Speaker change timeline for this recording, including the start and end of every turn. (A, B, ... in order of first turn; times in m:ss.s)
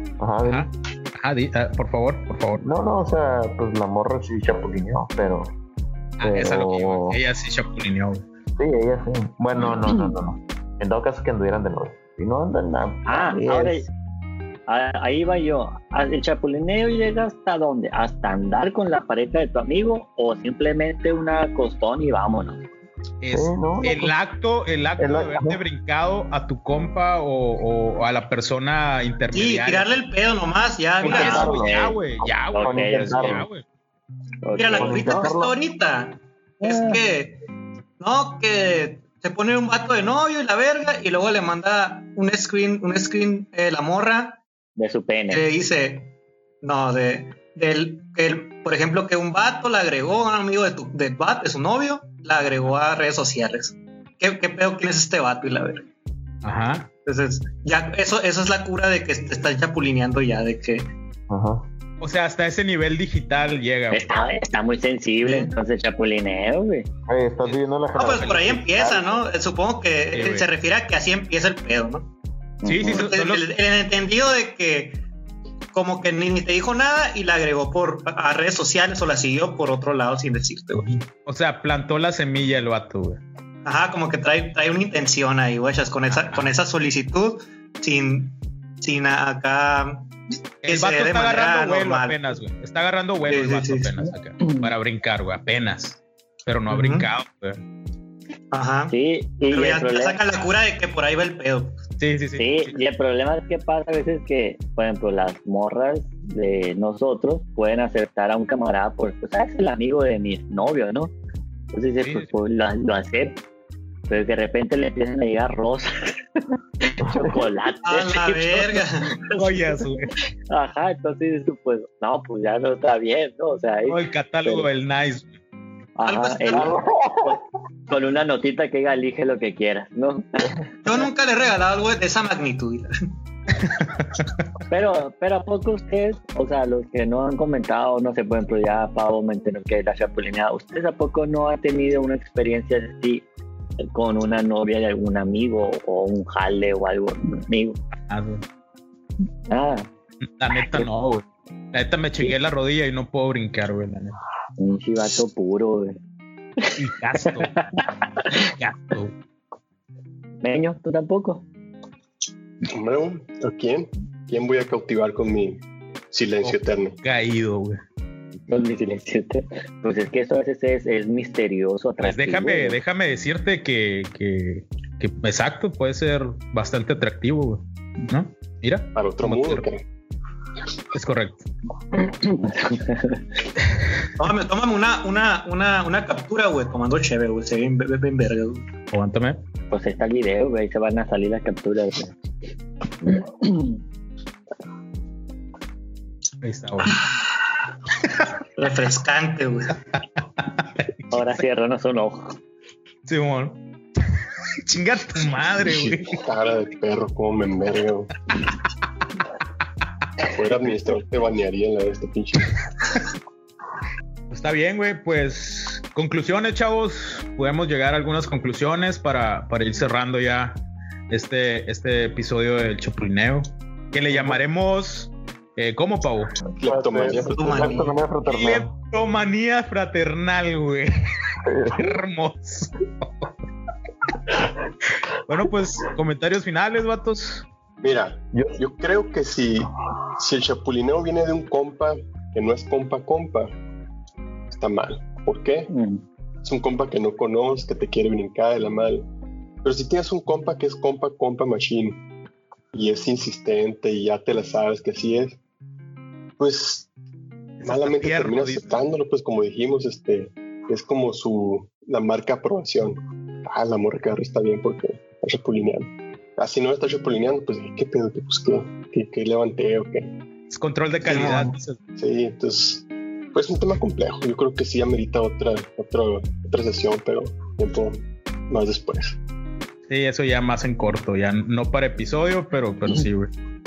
0:00.2-0:00.7 A
0:00.4-0:02.6 B
0:02.6-0:05.6 A
0:06.2-0:08.2 B
0:06.2-0:07.2 A
0:08.6-0:13.9 A
0:13.1-0:13.9 C
0:14.7-0:22.6 C
0:23.2-0:30.0 B
0:23.3-0:24.1 A
0:25.0-0:25.6 A
0:29.3-0:31.6 D
0:31.0-0:33.6 B
0:31.0-0:33.4 C
0:31.1-0:31.8 A
0:32.6-0:33.4 A
0:34.4-0:35.3 C
0:34.6-0:37.4 D
0:34.7-0:35.6 A
0:36.6-0:37.0 C
0:38.0-0:44.4 D
0:44.8-0:45.4 C
0:45.3-0:55.9 D
0:56.4-0:56.9 B
0:57.1-1:00.9 D
1:01.3-1:01.7 A
1:02.0-1:04.1 B
1:03.9-1:06.9 C
1:05.2-1:05.5 D
1:07.1-1:09.3 A
1:08.0-1:12.1 D
1:10.1-1:10.5 B
1:12.6-1:13.1 C
1:12.6-1:13.4 B
1:12.9-1:15.0 D
1:15.7-1:20.8 D
1:20.7-1:23.2 B
1:23.6-1:30.1 D
1:26.1-1:26.6 B
1:30.6-1:37.6 B
1:30.6-1:32.3 D
1:33.3-1:33.9 D
1:34.4-1:34.7 C
1:36.7-1:37.1 D
1:38.5-1:38.9 D
1:38.9-1:40.2 C
1:39.5-1:41.8 D
1:42.0-1:42.8 B
1:42.4-1:51.1 C
1:51.7-1:53.4 C
1:52.0-1:52.3 B
1:54.1-1:56.1 C
1:56.8-1:58.9 C
1:57.0-1:57.4 A
1:57.9-1:59.3 D
1:59.3-2:00.1 B
2:00.5-2:04.7 C
2:03.9-2:05.3 B
2:06.0-2:11.0 C
2:06.0-2:06.7 D
2:06.5-2:07.4 A
2:10.8-2:12.9 D
2:13.6-2:14.2 B
2:14.7-2:23.3 C
2:23.8-2:27.8 C
2:28.1-2:28.4 B
2:29.5-2:29.9 C
2:30.2-2:34.2 B
2:30.6-2:30.9 C
2:34.6-2:36.0 C
2:36.6-2:38.5 C
2:36.8-2:37.6 B
2:38.4-2:39.1 B
2:40.4-2:41.4 C
2:42.6-2:47.0 E
2:46.4-2:47.8 B
2:48.5-2:52.8 C
2:52.0-2:59.7 B
2:58.9-2:59.8 E
3:00.9-3:01.4 B
3:02.0-3:03.2 C
3:04.2-3:08.6 D
3:08.9-3:09.4 B
3:09.7-3:12.1 C
3:13.0-3:13.8 C
3:16.4-3:17.0 B
3:18.6-3:19.8 D
3:20.4-3:21.4 B
3:21.1-3:22.4 C
3:23.1-3:23.6 B
3:24.6-3:26.2 B
3:25.6-3:28.1 E
3:30.2-3:32.5 E
3:34.3-3:40.6 B
3:41.1-3:46.3 B
3:46.6-3:47.9 E
3:46.6-3:48.7 A
3:47.3-3:47.9 D
3:48.3-3:50.9 B
3:51.4-3:52.0 A
3:51.7-3:53.3 B
3:55.3-3:57.4 B
3:57.8-4:03.5 E
4:04.5-4:05.7 E
4:05.7-4:06.0 C
4:06.4-4:09.1 E
4:09.6-4:12.0 E
4:12.7-4:15.4 E
4:16.4-4:16.9 E
4:17.6-4:18.7 B
4:17.6-4:30.1 E
4:30.5-4:31.8 B
4:31.1-4:31.4 E
4:32.0-4:39.2 E
4:39.9-4:43.3 B